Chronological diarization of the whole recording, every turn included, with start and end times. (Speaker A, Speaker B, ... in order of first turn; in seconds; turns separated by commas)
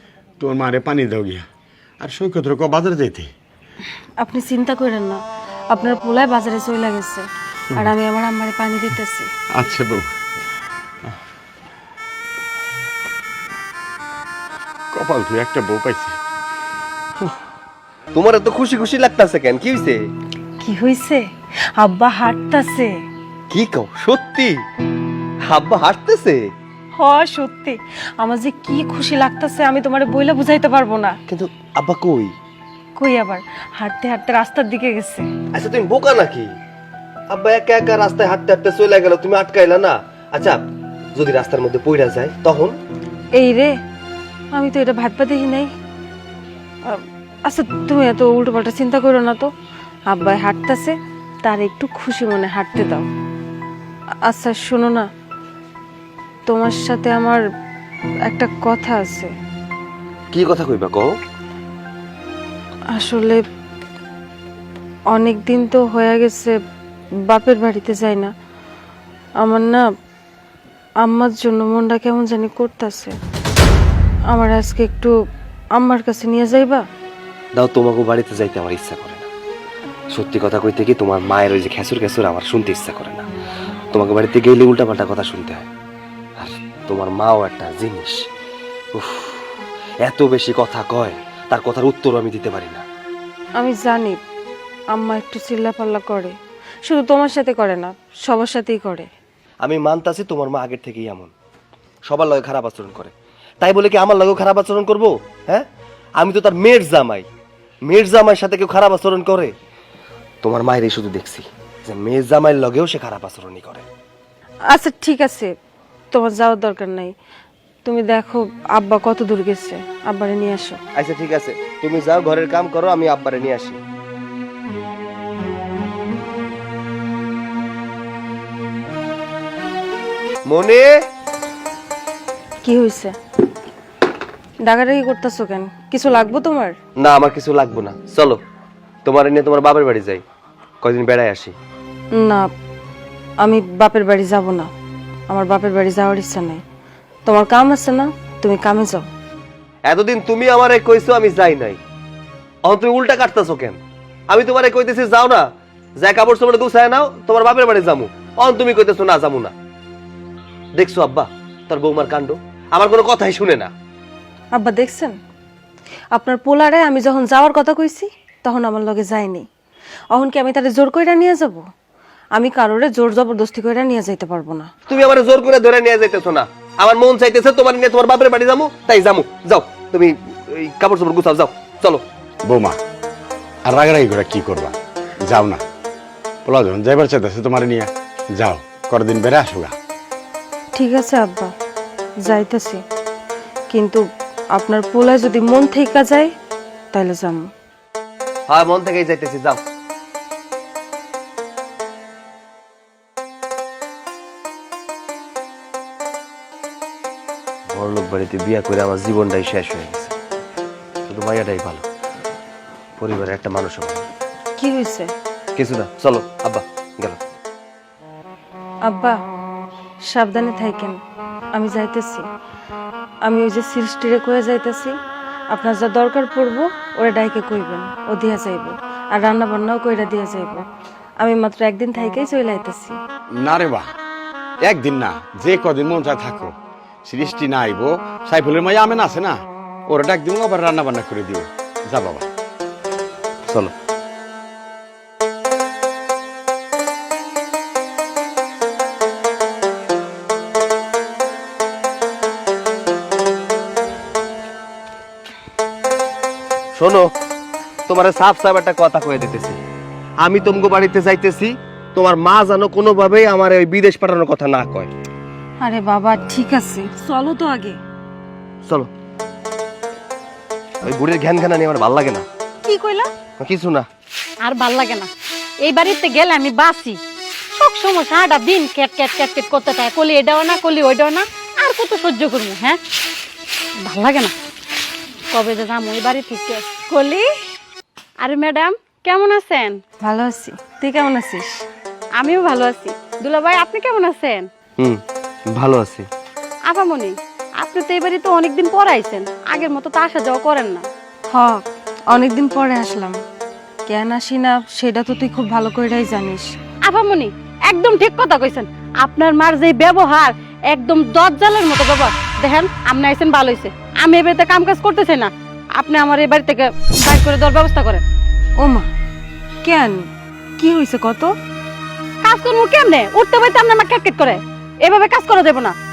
Speaker A: 0.4-1.5, Speaker A: 2.0-3.3, Speaker B: 4.2-7.2, Speaker B: 7.8-9.3, Speaker A: 9.6-10.1, Speaker A: 14.9-16.2, Speaker C: 18.1-20.0, Speaker B: 20.6-21.2, Speaker B: 21.8-22.9, Speaker C: 23.5-24.6, Speaker C: 25.5-26.4, Speaker B: 27.0-31.2, Speaker C: 31.3-32.3, Speaker B: 33.0-35.2, Speaker C: 35.5-36.5, Speaker C: 37.3-40.6, Speaker C: 41.2-42.8, Speaker B: 43.4-43.7, Speaker B: 44.5-45.7, Speaker B: 46.9-49.5, Speaker B: 50.1-53.1, Speaker B: 54.3-55.1, Speaker B: 56.5-57.4, Speaker B: 58.3-59.3, Speaker C: 60.3-61.1, Speaker B: 63.0-63.4, Speaker B: 65.1-66.5, Speaker B: 67.3-68.3, Speaker B: 69.4-69.8, Speaker B: 71.0-73.2, Speaker B: 74.3-75.1, Speaker B: 75.8-76.8, Speaker C: 77.6-79.3, Speaker C: 80.1-83.3, Speaker C: 83.9-85.7, Speaker C: 86.4-88.2, Speaker C: 89.0-89.5, Speaker C: 90.0-92.8, Speaker B: 93.6-94.2, Speaker B: 94.9-96.3, Speaker B: 96.9-99.1, Speaker C: 99.6-101.3, Speaker C: 102.1-105.7, Speaker C: 106.2-107.3, Speaker C: 107.9-109.5, Speaker C: 110.4-113.9, Speaker B: 114.7-115.5, Speaker B: 116.1-117.1, Speaker B: 117.8-120.8, Speaker C: 121.0-123.8, Speaker C: 130.5-130.9, Speaker B: 132.6-133.1, Speaker B: 134.7-136.8, Speaker C: 137.0-138.4, Speaker C: 139.1-140.2, Speaker C: 140.8-141.6, Speaker B: 142.2-142.4, Speaker B: 143.4-144.7, Speaker B: 145.3-146.6, Speaker B: 147.3-149.1, Speaker C: 149.9-151.8, Speaker C: 152.7-155.5, Speaker C: 156.0-159.5, Speaker C: 160.8-163.7, Speaker B: 164.5-165.1, Speaker B: 166.1-169.5, Speaker B: 170.1-171.7, Speaker B: 172.4-174.7, Speaker C: 174.9-182.0, Speaker A: 182.5-182.8, Speaker A: 183.7-185.6, Speaker A: 186.4-189.7, Speaker B: 190.8-191.5, Speaker B: 192.2-192.8, Speaker B: 193.7-194.0, Speaker B: 194.6-196.3, Speaker B: 196.9-197.4, Speaker C: 198.5-199.6, Speaker C: 207.7-210.1, Speaker C: 211.1-211.8, Speaker C: 213.0-214.1, Speaker B: 214.6-215.1, Speaker C: 215.6-217.2, Speaker B: 218.9-219.2, Speaker B: 220.1-221.0, Speaker B: 221.6-222.3, Speaker B: 223.3-224.9, Speaker B: 225.5-230.6, Speaker B: 231.2-233.0, Speaker A: 233.4-233.9, Speaker A: 234.7-236.5, Speaker A: 237.1-242.3, Speaker C: 243.5-243.7, Speaker C: 256.8-257.1, Speaker C: 257.9-259.6, Speaker C: 260.2-264.9, Speaker B: 265.6-267.8, Speaker C: 270.8-272.2, Speaker B: 272.7-273.1, Speaker C: 273.4-273.9, Speaker D: 274.4-275.1, Speaker D: 275.6-277.0, Speaker D: 277.6-282.8, Speaker D: 283.9-284.3, Speaker D: 285.3-287.3, Speaker D: 288.2-289.8, Speaker B: 290.0-291.5, Speaker D: 292.2-294.4, Speaker C: 295.5-296.1, Speaker D: 296.7-300.9, Speaker B: 301.3-303.2, Speaker B: 303.9-306.6, Speaker D: 306.9-318.0, Speaker B: 318.6-318.9, Speaker B: 319.6-321.3, Speaker D: 322.2-325.8